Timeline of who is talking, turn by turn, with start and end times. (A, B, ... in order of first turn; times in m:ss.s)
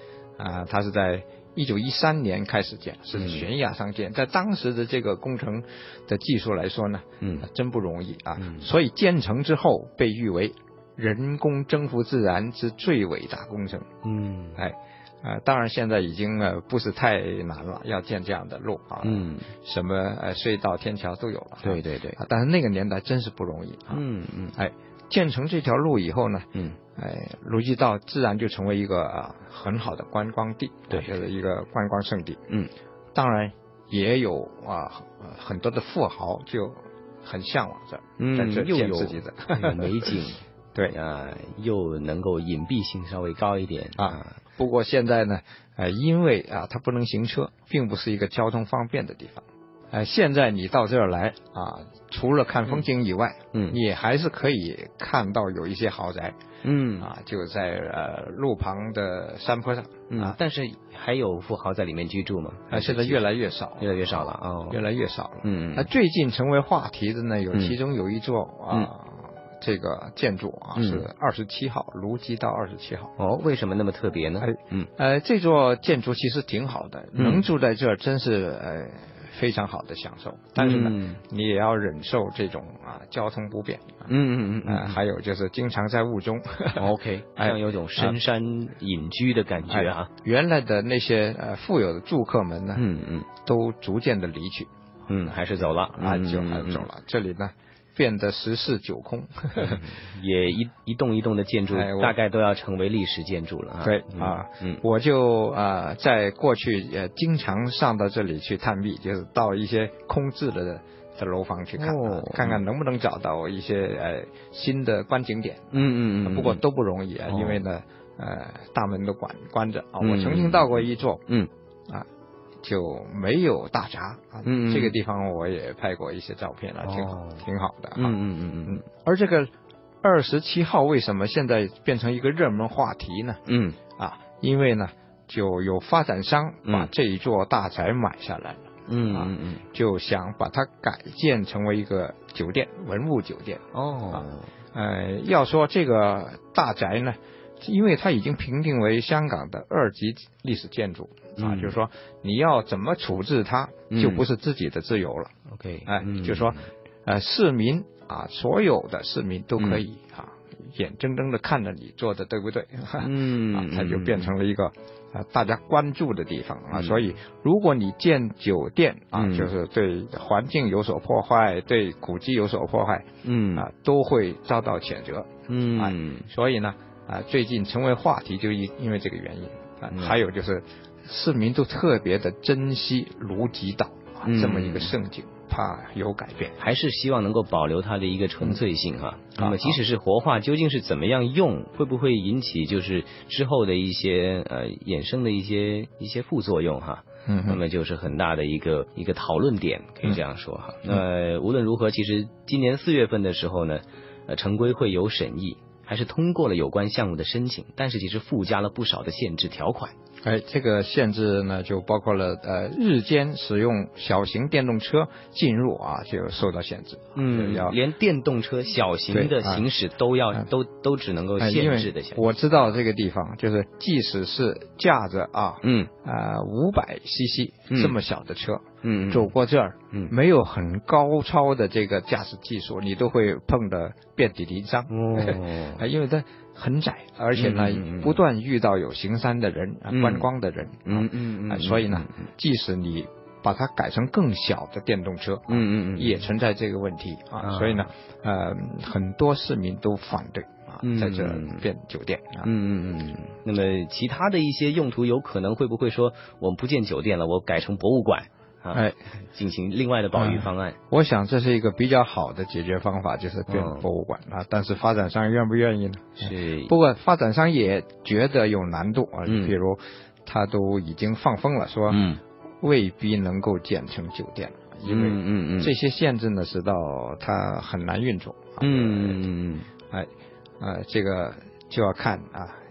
0:00.4-0:13.9 A
0:03.1-0:03.4 B
0:07.2-0:07.4 B
0:08.4-0:08.7 B
0:14.0-0:14.6 B
0:14.6-0:32.4 A
0:19.0-0:19.5 B
0:21.6-0:22.2 B
0:23.9-0:24.6 B
0:33.1-0:40.1 A
0:38.2-0:44.4 B
0:44.0-0:56.4 A
0:56.6-0:57.1 B
0:57.0-1:00.4 A
1:00.1-1:03.2 B
1:02.7-1:13.1 A
1:03.8-1:04.8 B
1:05.4-1:05.9 B
1:10.8-1:11.0 B
1:13.2-1:14.9 B
1:14.4-1:24.1 A
1:17.2-1:17.4 B
1:20.6-1:21.2 B
1:24.0-1:25.0 B
1:24.6-1:28.2 A
1:26.8-1:30.1 B
1:29.7-1:32.8 A
1:32.8-1:33.3 B
1:33.4-1:34.7 A
1:35.1-1:36.9 B
1:35.3-1:39.8 A
1:39.6-1:44.8 B
1:41.7-1:42.2 A
1:43.8-2:01.2 A
1:51.8-1:52.6 B
1:55.7-1:56.6 B
1:57.3-1:57.6 B
2:00.0-2:01.5 B
2:02.6-2:09.5 A
2:04.4-2:05.0 B
2:06.8-2:07.4 B
2:08.0-2:08.8 B
2:10.0-2:13.4 A
2:13.4-2:13.8 B
2:14.0-2:35.3 A
2:18.9-2:19.6 B
2:23.7-2:24.5 B
2:31.4-2:31.8 B
2:33.9-2:34.2 B
2:35.5-2:36.6 B
2:35.8-3:06.6 A
2:39.6-2:39.8 B
2:43.0-2:44.3 B
2:46.7-2:47.2 B
2:49.2-2:49.5 B
2:53.2-2:53.7 B
2:55.5-2:56.3 B
2:59.9-3:00.2 B
3:04.2-3:04.9 B
3:06.6-3:29.9 B
3:09.4-3:09.8 A
3:17.2-3:17.6 A
3:30.2-3:37.8 A
3:37.1-3:42.8 B
3:39.1-3:39.7 A
3:41.4-4:12.5 A
3:45.6-3:45.9 B
3:47.7-3:48.0 B
3:48.8-3:49.3 B
3:54.9-3:55.8 B
3:57.3-3:58.2 B
3:59.9-4:00.3 B
4:00.8-4:02.2 B
4:05.5-4:06.2 B
4:07.4-4:07.9 B
4:10.8-4:11.6 B
4:12.4-4:20.8 B
4:18.7-4:19.0 A
4:20.1-4:32.1 A
4:23.5-4:23.8 B
4:26.2-4:26.7 B
4:29.2-4:29.6 B
4:31.9-4:32.2 B
4:32.6-4:39.2 A
4:34.8-4:35.7 B
4:38.6-4:39.7 B
4:40.6-4:42.6 A